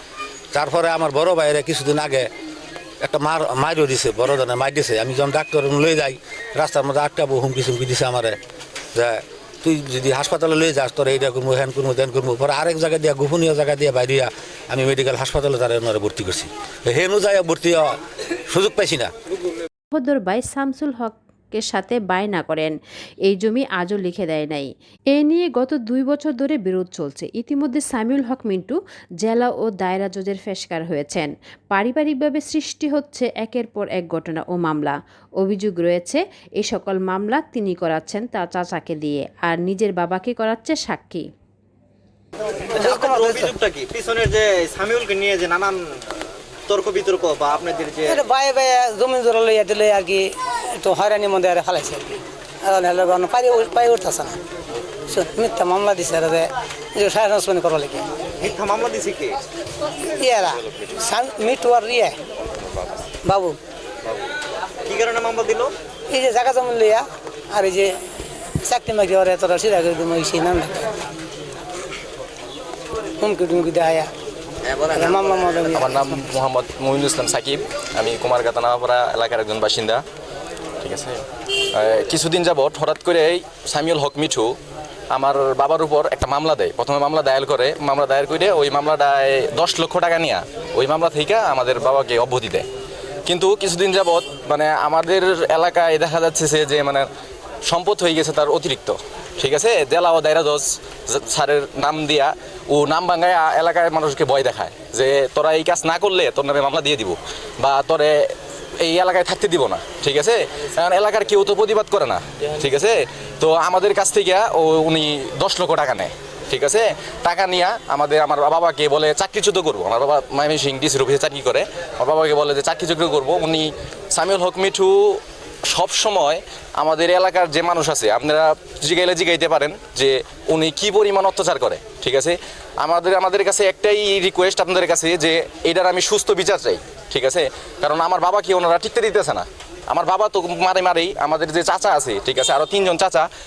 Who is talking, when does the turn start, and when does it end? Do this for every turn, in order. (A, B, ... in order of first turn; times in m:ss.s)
0:00.5-0:02.3 A
0:03.0-0:08.4 A
0:08.9-0:18.0 A
0:18.5-0:19.1 A
0:19.9-0:22.7 B
0:23.2-0:41.3 B
0:42.7-0:43.5 C
0:42.7-0:45.8 D
0:46.7-0:48.2 D
0:48.0-0:54.4 C
0:55.1-0:58.1 C
0:58.4-0:59.4 D
1:00.2-1:02.2 C
1:03.2-1:03.6 C
1:04.9-1:05.7 D
1:06.1-1:07.9 C
1:08.6-1:10.8 C
1:13.2-1:14.1 C
1:14.7-1:16.2 C
1:15.7-1:20.0 E
1:20.8-1:21.2 E
1:21.7-1:24.5 E
1:25.1-1:32.6 E
1:33.3-1:37.1 E
1:37.7-1:48.1 E
1:48.8-2:23.3 E